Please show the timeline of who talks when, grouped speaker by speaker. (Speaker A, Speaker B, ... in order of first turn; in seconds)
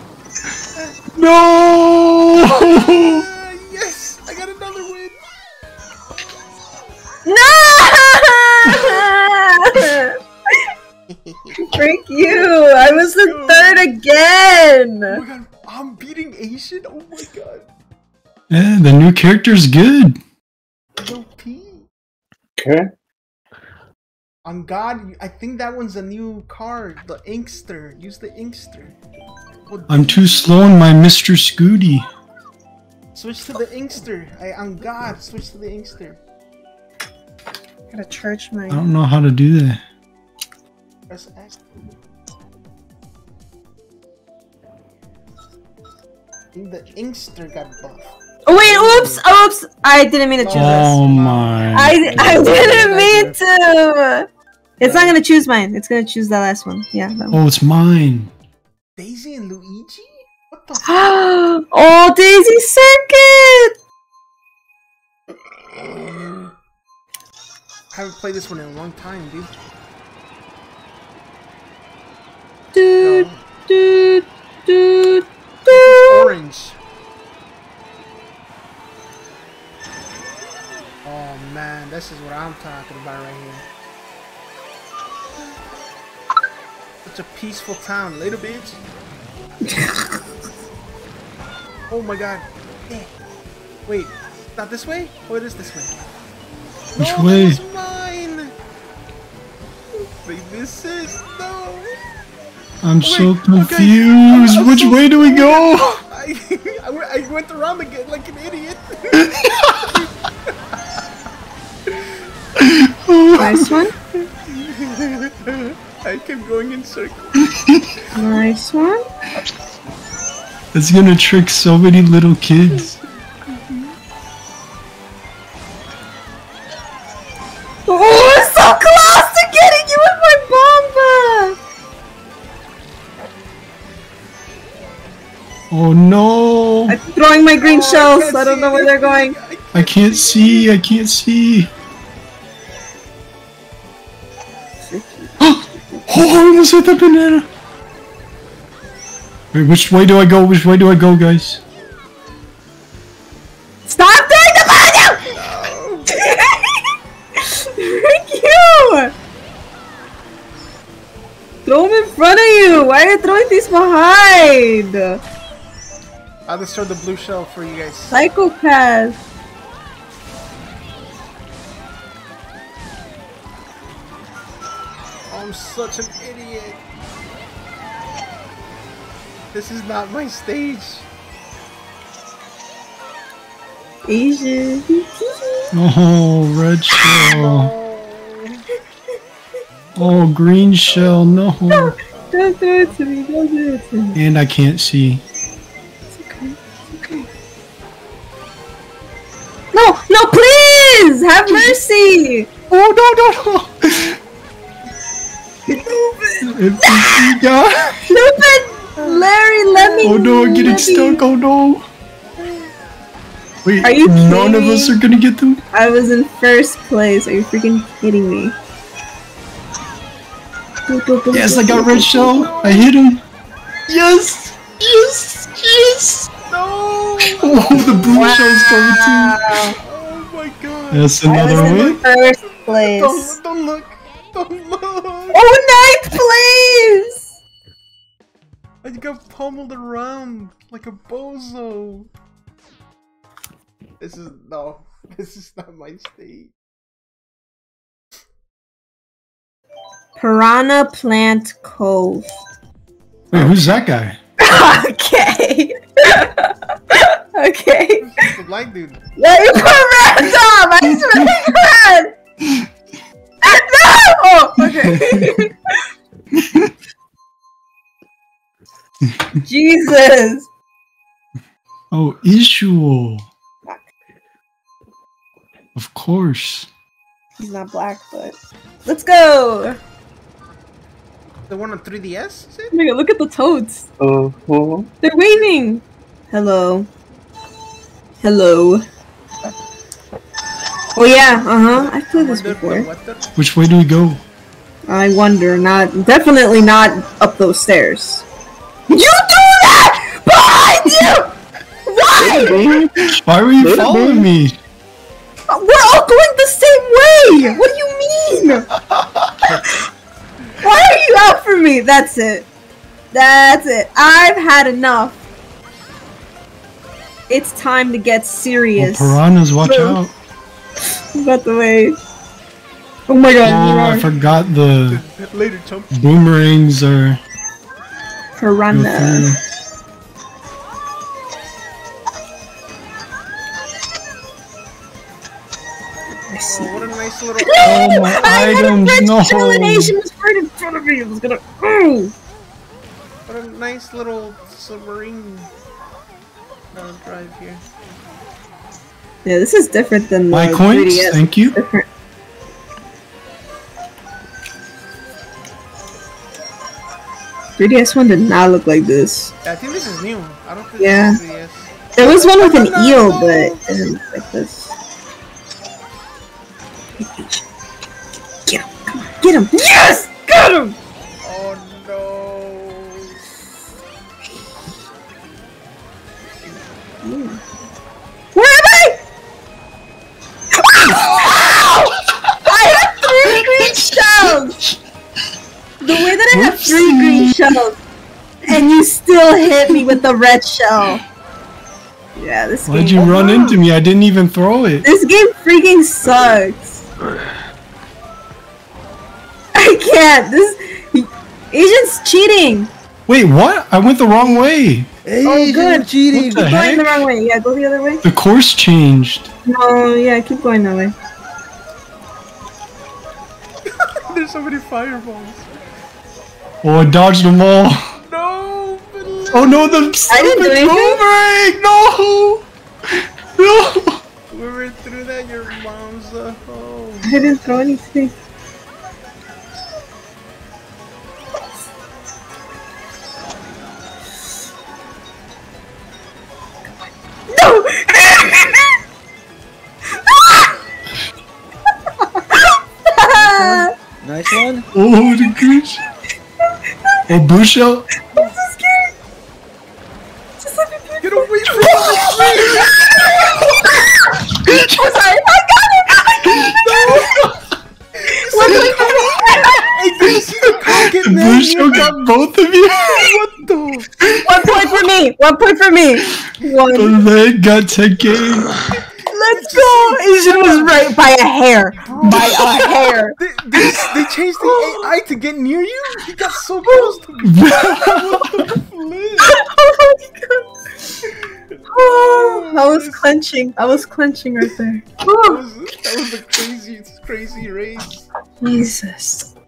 Speaker A: 1.1-3.2, 18.5-20.2, 29.9-32.1, 38.7-39.8, 50.5-52.9, 57.3-58.3, 96.9-97.6, 102.8-106.0, 109.1-109.7, 112.6-113.8, 117.4-117.9, 120.7-123.0, 135.7-137.0, 139.7-141.7, 145.4-147.5, 149.5-151.6, 185.7-187.7, 189.9-192.0, 194.1-195.2, 201.5-201.8, 202.7-204.2, 206.4-208.3, 210.0-211.8, 213.6-215.6, 221.3-223.2, 223.9-226.3, 227.2-229.4, 230.9-232.0, 253.3-254.2, 264.6-265.4, 266.3-266.7, 271.9-273.3, 275.7-276.7, 293.4-294.2, 303.1-304.6, 318.8-320.1, 323.4-325.0, 325.9-327.2, 328.7-329.4, 337.6-339.9, 350.3-351.6, 383.4-384.8, 385.9-387.6, 392.7-394.9, 403.1-404.9, 406.1-407.1, 408.0-409.3, 416.6-417.8, 419.3-424.0, 444.7-445.8, 447.1-447.9, 456.2-456.6, 460.6-463.1, 466.7-468.5, 472.0-472.5, 477.2-478.2
Speaker B: 2.4-5.2, 11.1-11.7, 12.3-13.9, 15.1-17.7, 21.0-21.9, 24.4-28.9, 29.7-30.6, 33.1-36.2, 41.1-41.7, 46.5-48.1, 50.4-52.0, 59.0-61.0, 65.7-66.5, 67.9-69.5, 73.0-73.4, 75.7-76.8, 81.0-83.6, 87.0-88.8, 91.9-93.1, 93.9-96.0, 97.0-98.5, 99.9-101.9, 103.0-110.1, 111.9-112.2, 114.1-117.5, 123.5-123.9, 137.6-140.7, 155.3-156.1, 166.5-168.2, 175.3-176.8, 179.5-181.1, 187.1-188.6, 190.9-191.4, 208.9-210.7, 212.4-212.7, 222.1-222.9, 226.5-228.4, 229.8-235.5, 238.8-242.1, 244.0-246.5, 258.0-259.0, 281.5-282.7, 291.7-293.3, 324.2-326.1, 336.4-338.5, 343.3-345.5, 346.7-347.6, 359.4-363.6, 371.2-373.1, 414.1-415.5, 418.1-420.0, 424.3-427.1, 451.0-452.8, 456.6-457.1, 457.9-462.0, 462.8-464.0, 466.4-466.6, 468.8-470.9, 471.7-479.4, 481.1-483.1, 485.1-488.0
Speaker C: 7.2-10.6, 11.6-15.2, 37.9-38.8, 48.5-50.9, 51.7-54.3, 54.8-57.4, 60.9-63.7, 72.7-76.3, 89.7-90.0, 113.4-113.9, 118.1-119.0, 127.9-131.6, 136.9-139.3, 144.9-146.0, 153.9-155.3, 156.1-156.8, 157.4-159.1, 161.7-165.2, 168.1-169.2, 184.1-185.7, 191.7-194.2, 196.2-197.3, 199.7-202.5, 205.7-207.3, 208.1-211.2, 213.8-215.0, 215.7-218.6, 220.9-222.4, 228.2-229.8, 231.2-233.4, 235.3-237.3, 250.2-252.3, 254.4-258.3, 259.2-262.1, 263.4-265.9, 269.4-270.5, 277.4-279.8, 282.7-283.9, 285.0-286.9, 288.2-288.8, 290.9-292.9, 294.9-298.2, 298.9-302.7, 305.5-308.7, 310.6-312.5, 313.1-315.2, 317.3-320.0, 321.1-322.0, 323.1-324.1, 328.4-329.3, 336.3-336.9, 337.4-342.1, 349.2-351.9, 357.6-359.3, 360.8-361.2, 361.9-364.7, 367.0-367.4, 368.4-370.8, 377.0-377.4, 378.3-379.0, 380.5-384.6, 385.8-387.8, 388.4-391.0, 392.1-393.6, 394.8-396.8, 399.5-402.7, 405.2-408.0, 409.4-410.9, 420.1-421.0, 427.0-428.1, 437.3-438.7, 440.0-440.5, 442.3-443.7, 448.1-448.9, 450.4-457.3, 458.1-459.7, 464.2-467.0, 469.1-474.9, 476.6-476.9, 479.2-480.5, 481.7-485.4, 488.4-489.3
Speaker D: 22.6-22.9, 284.0-284.9, 302.2-304.2
Speaker E: 48.5-49.2, 52.1-53.4, 54.8-55.1, 405.0-406.5, 443.1-444.7